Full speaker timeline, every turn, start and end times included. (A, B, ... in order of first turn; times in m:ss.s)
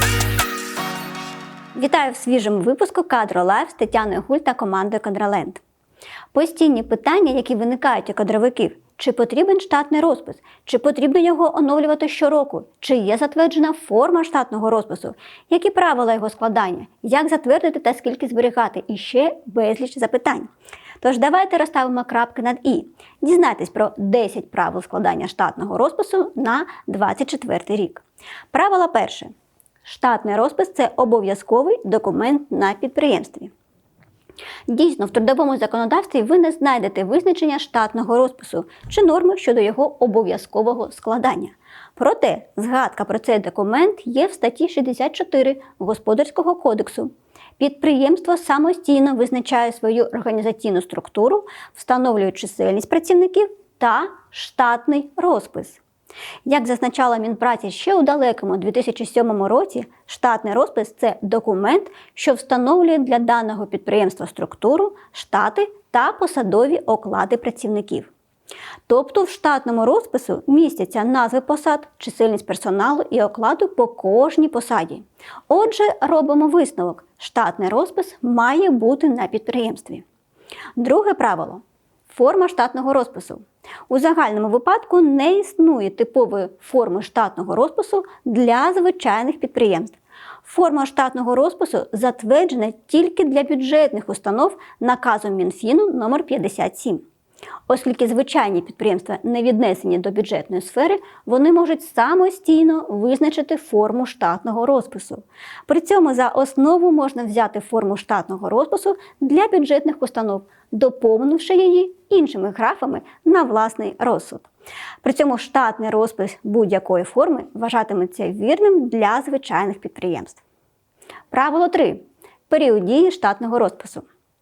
0:01.7-0:05.6 A
0:06.3-0:20.5 A
0:21.0-0:29.3 A
0:29.8-0:33.5 A
0:34.7-0:55.8 A
0:56.4-1:08.1 A
1:08.9-1:20.0 A
1:20.8-1:37.0 A
1:37.7-1:54.5 A
1:55.0-2:00.4 A
2:01.3-2:04.0 A